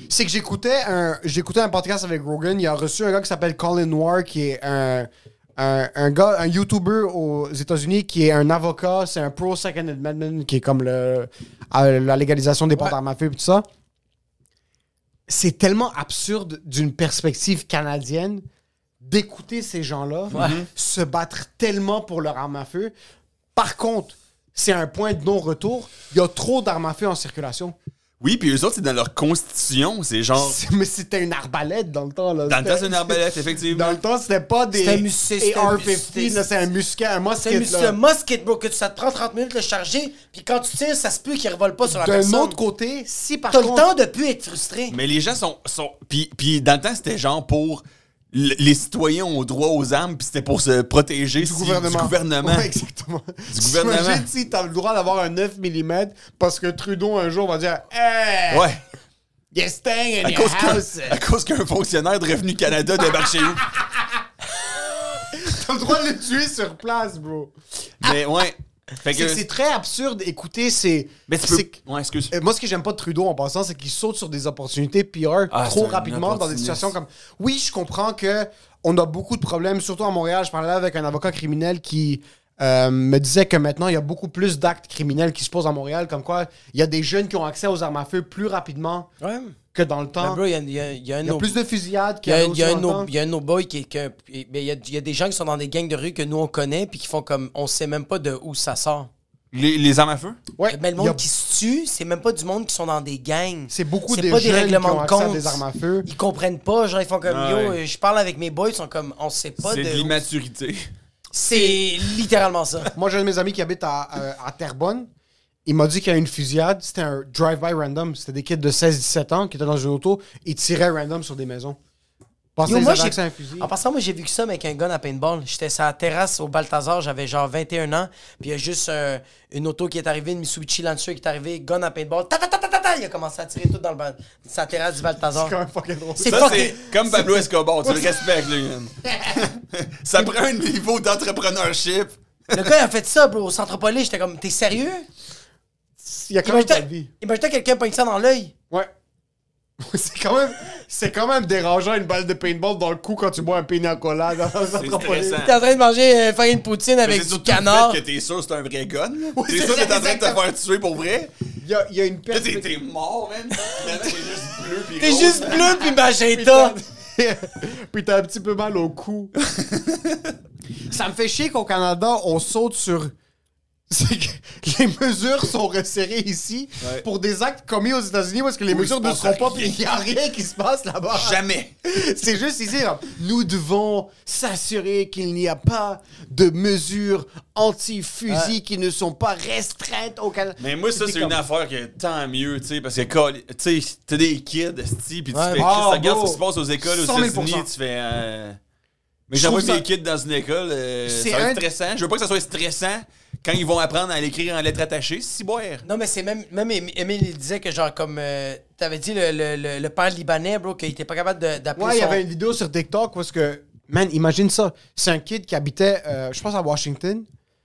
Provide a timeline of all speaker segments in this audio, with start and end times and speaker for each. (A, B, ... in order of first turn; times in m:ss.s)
0:00.1-0:13.6 A
0:15.3-0:18.4 A
0:19.0-0:22.9 A
0:20.3-0:20.6 B
0:20.3-0:20.7 C
0:23.6-0:27.8 A
0:28.2-0:30.6 C
0:30.4-0:38.0 A
0:32.5-0:34.0 C
0:34.7-0:36.5 B
0:37.4-0:42.6 B
0:41.9-0:43.9 A
0:43.5-0:45.0 B
0:44.9-0:52.7 C
0:51.4-0:58.7 A
0:53.5-0:54.3 C
0:58.5-0:58.8 C
0:59.5-1:01.2 A
1:00.2-1:03.7 C
1:03.7-1:04.2 A
1:05.3-1:07.5 A
1:08.0-1:09.4 C
1:09.1-1:11.8 A
1:11.3-1:12.3 C
1:12.3-1:29.1 A
1:15.5-1:16.9 C
1:29.2-1:29.6 B
1:29.7-1:30.4 A
1:30.2-1:31.5 B
1:31.2-1:33.1 A
1:32.2-1:39.1 B
1:39.5-1:40.4 C
1:40.6-1:41.2 A
1:40.7-1:50.2 B
1:43.7-1:46.1 A
1:47.2-1:47.8 C
1:49.6-1:50.9 C
1:51.4-1:52.9 B
1:51.4-1:51.8 A
1:53.0-1:55.1 A
1:55.7-2:01.8 A
2:02.6-2:03.7 A
2:02.6-2:15.6 B
2:15.4-2:17.2 A
2:16.2-2:16.9 B
2:16.2-2:22.7 C
2:17.8-2:18.1 A
2:19.1-2:19.5 A
2:22.5-2:25.1 B
2:26.0-2:27.1 A
2:26.4-2:28.5 B
2:29.8-2:35.4 A
2:34.7-2:35.6 C
2:35.4-2:38.0 B
2:37.0-2:41.3 C
2:39.3-2:40.4 A
2:41.6-2:42.8 A
2:42.3-2:45.9 C
2:45.0-2:46.8 B
2:46.3-2:49.3 A
2:49.4-2:50.4 C
2:50.9-2:53.1 A
2:53.9-3:11.4 A
2:58.7-2:59.8 C
3:01.1-3:01.7 C
3:10.6-3:18.6 C
3:15.3-3:15.7 B
3:15.6-3:17.7 A
3:19.3-3:25.8 C
3:19.4-3:19.8 A
3:21.0-3:21.6 A
3:25.8-3:32.2 B
3:31.8-3:37.3 A